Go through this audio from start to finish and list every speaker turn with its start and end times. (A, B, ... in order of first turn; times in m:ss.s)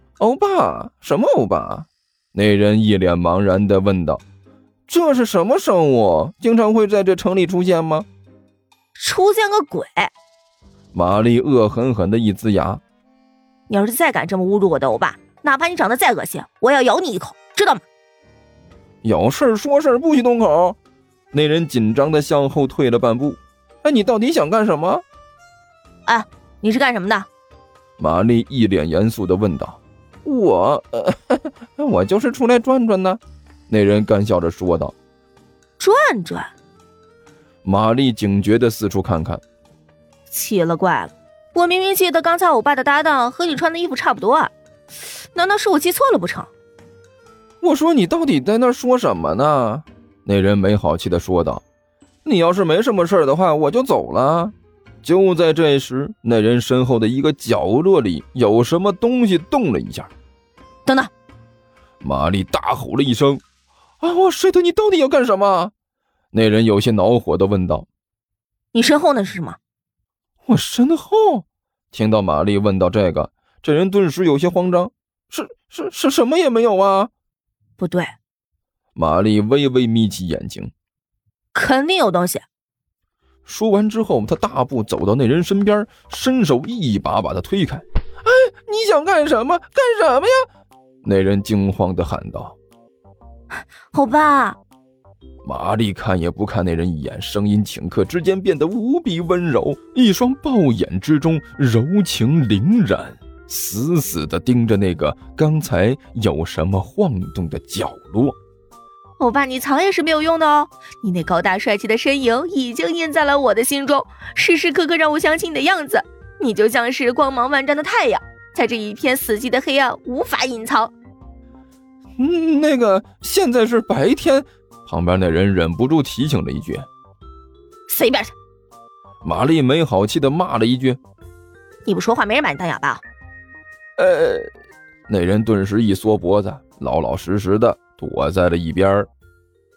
0:00.2-0:04.2 A
0:04.9-0:08.1 A
0:09.0-0:10.1 B
0:10.9-0:12.8 A
0:13.7-0:17.8 B
0:19.0-0:20.8 A
0:21.3-0:25.0 A
0:26.1-0:27.3 B
0:28.0-0:35.0 A
0:35.8-0:36.5 B
0:37.6-0:39.4 A
0:40.3-0:46.5 B
0:47.6-0:51.6 A
0:52.2-1:00.1 A
1:00.9-1:01.1 B
1:02.0-1:03.4 A
1:04.0-1:05.7 A
1:06.3-1:07.9 A
1:08.7-1:09.6 B
1:10.5-1:17.1 A
1:17.8-1:18.1 B
1:19.0-1:20.7 A
1:21.5-1:22.4 B
1:23.5-1:30.5 A
1:31.0-1:32.6 A
1:33.9-1:34.6 B
1:35.4-1:48.4 A
1:49.2-2:00.9 B
2:02.2-2:06.9 A
2:07.9-2:08.3 B
2:09.2-2:11.0 A
2:11.8-2:13.0 B
2:14.0-2:14.5 A
2:15.1-2:19.1 A